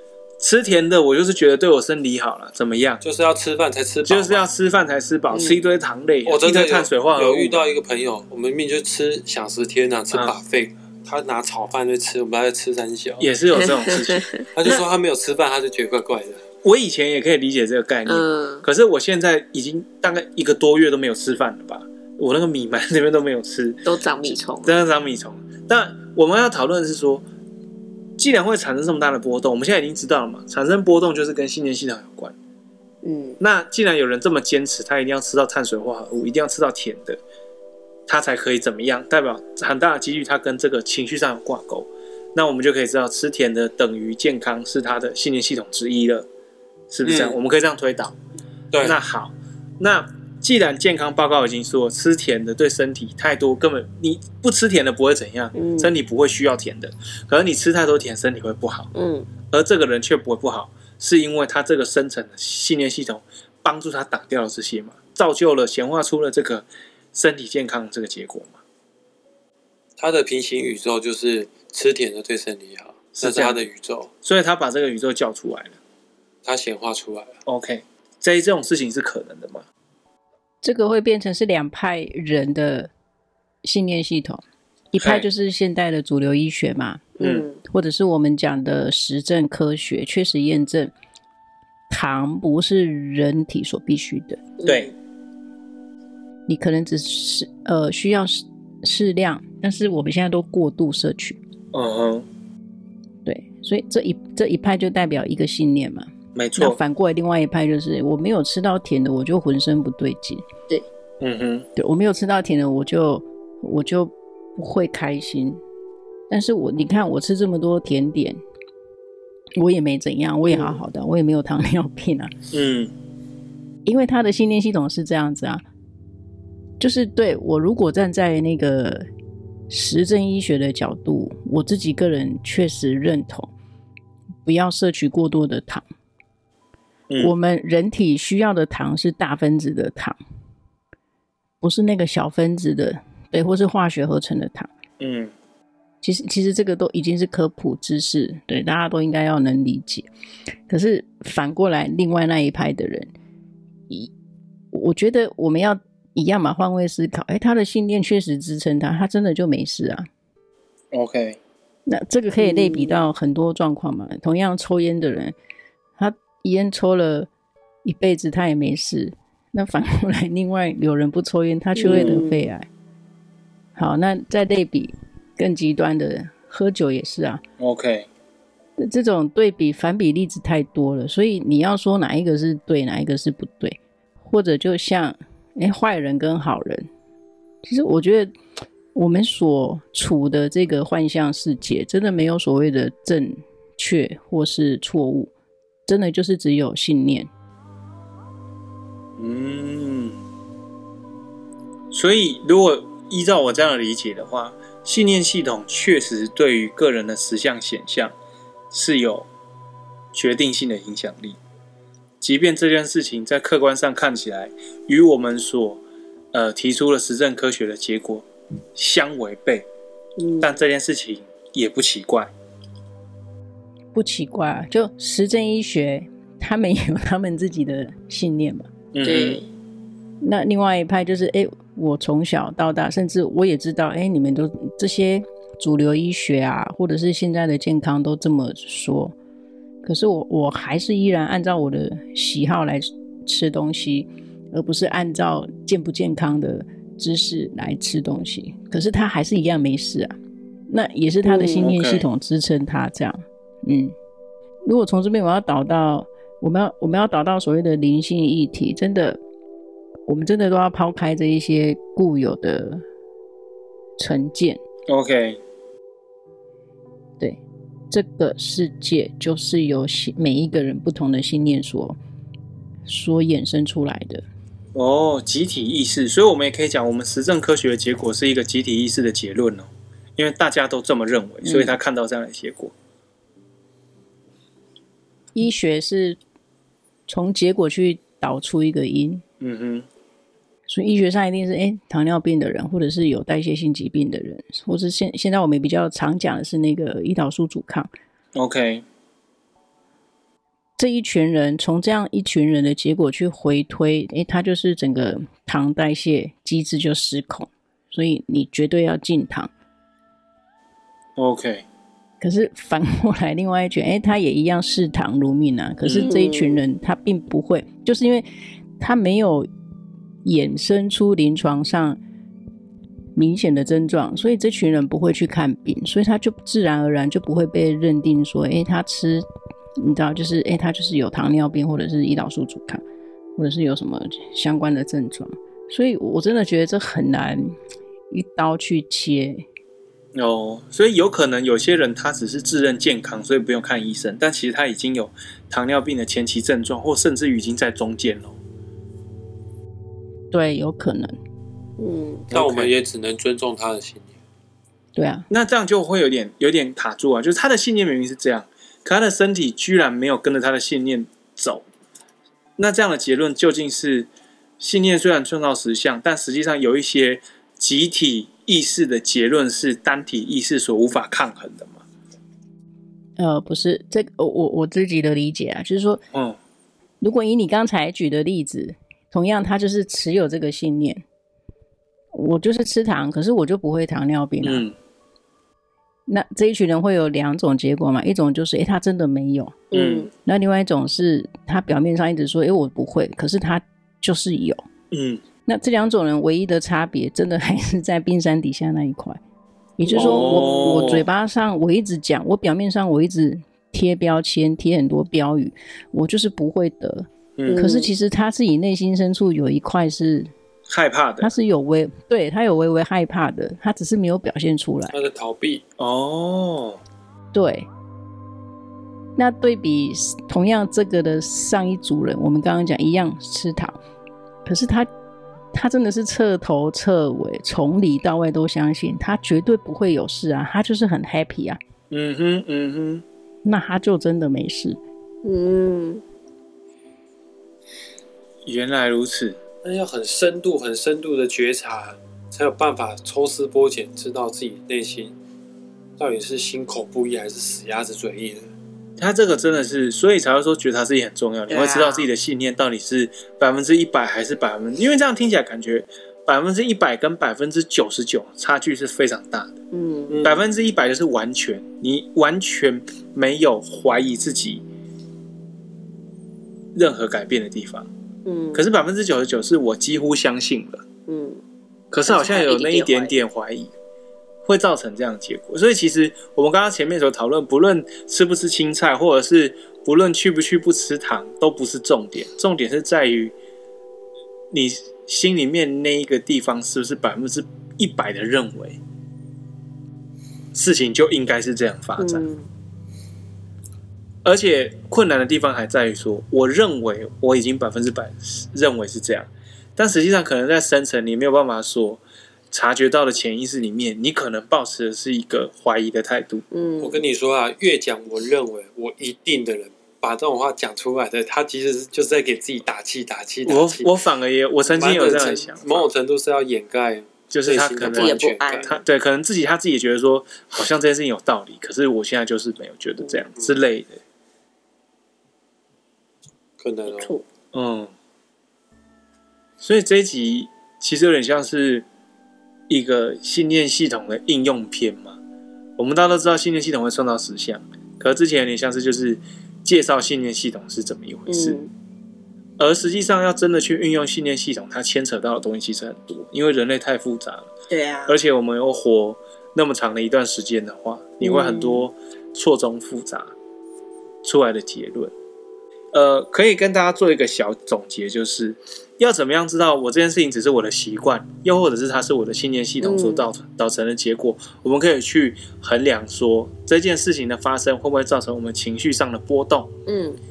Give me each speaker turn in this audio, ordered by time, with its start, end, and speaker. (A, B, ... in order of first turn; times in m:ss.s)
0:00.4-0:03.0 A
0:03.0-0:04.4 B
0:04.0-0:07.6 A
0:05.3-0:05.6 C
0:06.2-0:13.3 B
0:13.2-0:14.3 A
0:13.6-0:14.7 C
0:14.4-0:16.4 B
0:16.6-0:27.2 A
0:18.0-0:18.6 C
0:23.8-0:24.8 C
0:28.2-0:32.3 A
0:33.0-0:33.4 C
0:33.4-0:37.2 A
0:38.1-0:46.3 A
0:46.9-0:48.1 A
0:47.0-0:47.4 B
0:48.7-0:49.0 B
0:48.8-0:58.9 A
0:55.5-0:55.9 C
0:58.9-0:59.3 C
0:59.5-1:08.6 A
1:10.0-1:14.1 B
1:13.2-1:13.6 A
1:14.2-1:15.8 A
1:16.4-1:17.4 B
1:17.4-1:19.6 A
1:20.6-1:22.9 D
1:23.6-1:24.4 D
1:24.9-1:27.1 D
1:25.0-1:25.3 A
1:27.2-1:27.6 C
1:27.2-1:27.5 A
1:27.6-1:30.9 D
1:31.9-1:34.4 D
1:34.6-1:34.9 C
1:34.6-1:34.9 A
1:36.5-1:41.4 D
1:41.7-1:42.2 A
1:43.2-1:50.4 D
1:46.3-1:46.8 A
1:51.2-1:51.7 A
1:51.8-1:55.6 D
1:56.3-1:58.4 D
1:59.6-2:02.3 D
2:00.5-2:00.8 C
2:02.5-2:02.9 A
2:03.8-2:05.6 D
2:06.8-2:09.0 D
2:09.7-2:13.5 D
2:14.4-2:15.8 D
2:17.1-2:17.3 A
2:17.2-2:20.2 D
2:21.6-2:24.7 D
2:25.0-2:25.3 A
2:26.0-2:30.1 D
2:30.7-2:33.1 D
2:34.7-2:40.1 D
2:40.9-2:41.4 A
2:41.9-2:45.3 D
2:42.4-2:43.0 C
2:46.0-2:47.3 D
2:47.8-2:52.7 D
2:51.8-2:52.4 C
2:51.8-2:52.2 A
2:53.8-2:57.4 D
2:57.6-2:58.1 A
2:58.8-3:06.9 D
3:07.6-3:08.3 D
3:08.9-3:15.3 D
3:15.9-3:17.3 D
3:19.2-3:20.2 A
3:21.9-3:28.1 A
3:28.7-3:29.3 A
3:30.1-3:31.4 A
3:32.2-3:35.8 A
3:36.3-3:39.7 A
3:40.2-3:40.6 C
3:40.4-3:42.3 A
3:43.9-3:48.7 D
3:48.9-3:49.4 A
3:49.0-3:49.5 C
3:50.2-3:59.1 D
3:59.8-4:10.1 D
4:10.7-4:13.9 D
4:11.2-4:11.7 C
4:11.6-4:12.0 A
4:14.6-4:19.2 D
4:20.1-4:22.8 D
4:24.0-4:24.6 D
4:24.9-4:25.4 A
4:27.9-4:32.0 D
4:32.8-4:34.2 D
4:34.7-4:42.7 A
4:41.4-4:41.7 D
4:45.3-4:46.2 D
4:47.1-4:49.2 D
4:49.4-4:49.9 A
4:50.7-4:57.9 D
4:58.3-4:58.8 A
5:00.8-5:09.5 D
5:11.2-5:11.6 A
5:12.2-5:18.2 D
5:15.8-5:16.1 A
5:16.0-5:16.6 C
5:18.8-5:19.5 D
5:20.2-5:22.0 D
5:23.2-5:29.2 D
5:29.8-5:32.8 D
5:33.4-5:37.6 D
5:38.1-5:39.4 D
5:40.1-5:48.4 A
5:50.3-5:51.1 D
5:51.8-5:52.3 C
5:52.3-5:54.1 B
5:52.3-5:52.7 A
5:54.9-5:55.3 D
5:55.3-6:01.6 A
6:02.6-6:04.1 A
6:04.6-6:11.8 A
6:13.2-6:16.0 D
6:16.1-6:16.4 A
6:17.0-6:21.0 D
6:22.1-6:24.6 D
6:24.4-6:24.7 A
6:26.1-6:29.6 D
6:29.7-6:30.1 C
6:29.7-6:30.1 A
6:30.2-6:34.6 D
6:34.9-6:35.2 A
6:35.4-6:39.2 D
6:39.8-6:50.3 D
6:39.9-6:40.4 C
6:39.9-6:41.1 A
6:47.4-6:47.6 A
6:47.4-6:47.9 C
6:50.7-6:51.3 A
6:51.2-6:54.9 D
6:54.9-6:55.6 B
6:55.8-6:56.8 A
6:57.3-6:57.7 D
6:59.2-7:03.8 D
7:04.4-7:04.9 D
7:05.5-7:11.6 D
7:11.9-7:13.0 A
7:13.4-7:14.8 D
7:15.2-7:16.0 C
7:18.4-7:19.4 A
7:19.6-7:25.1 B
7:26.0-7:28.5 B
7:29.0-7:39.5 A
7:31.5-7:32.1 C
7:39.7-7:40.2 C
7:40.1-7:40.4 B
7:40.2-7:44.6 A
7:46.7-7:47.9 A
7:48.2-7:48.6 C
7:48.5-7:50.8 A
7:51.1-7:51.4 C
7:51.9-7:53.7 A
7:52.0-7:53.1 C
7:54.4-8:03.3 A
8:04.5-8:08.8 A
8:10.5-8:12.2 A
8:12.0-8:12.5 C
8:14.2-8:26.4 A
8:26.5-8:27.0 C
8:26.8-8:33.9 B
8:33.4-8:35.9 A
8:34.7-8:38.8 B
8:37.3-8:44.0 A
8:37.8-8:38.7 C
8:46.6-8:47.2 B
8:46.9-8:47.2 C
8:47.5-8:47.9 A
8:49.6-8:51.8 A
8:52.7-8:55.2 A
8:55.8-9:01.6 A
9:01.3-9:01.7 C
9:02.6-9:07.5 A
9:07.7-9:08.2 C
9:08.1-9:13.3 A
9:11.2-9:11.9 C
9:14.2-9:15.1 A
9:15.9-9:29.7 A
9:22.8-9:23.3 C
9:29.8-9:30.2 C